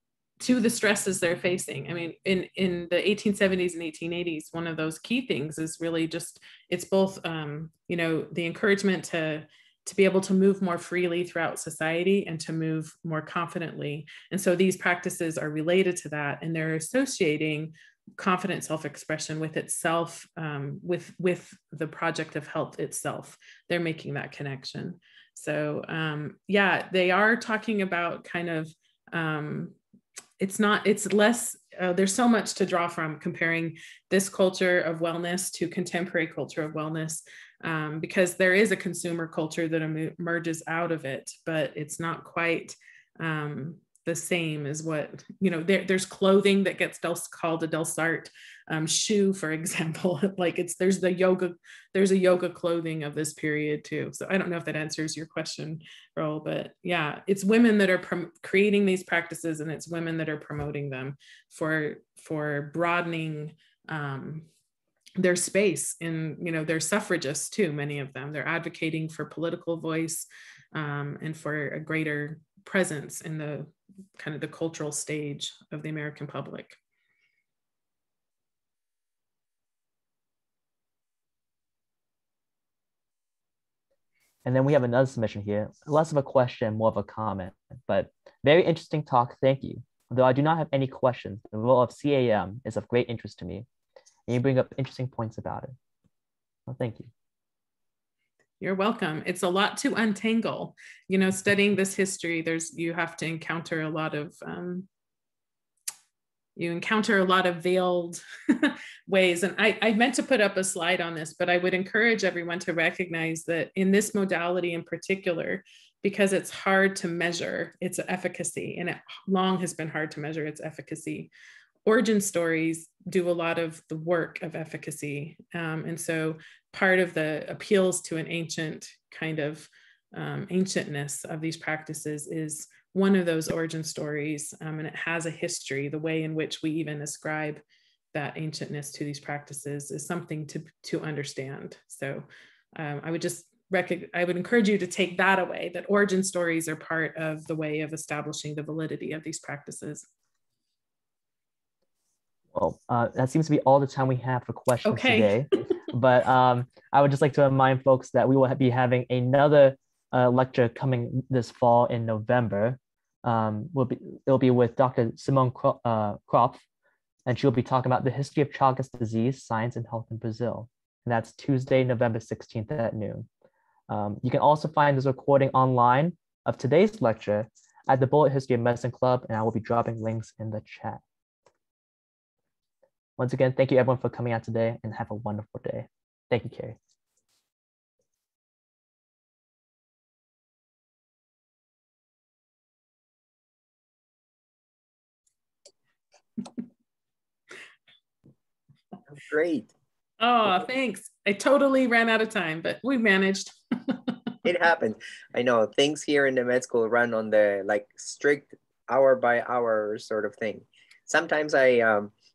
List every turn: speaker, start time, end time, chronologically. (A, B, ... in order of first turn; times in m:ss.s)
0:00.4-0:29.8 A
0:30.4-1:04.5 A
1:05.2-1:16.8 A
1:24.4-1:33.7 B
1:34.3-1:35.8 B
1:36.7-1:37.1 B
1:38.6-1:44.9 A
1:46.6-2:01.3 A
2:01.9-2:17.6 A
2:18.1-2:22.3 A
2:22.8-2:30.1 A
2:32.5-2:46.6 B
2:34.8-2:35.4 A
2:47.3-2:53.3 B
2:53.9-3:01.0 B
3:03.2-3:06.8 B
3:19.2-3:19.7 C
3:20.2-3:24.2 A
3:24.4-3:32.1 C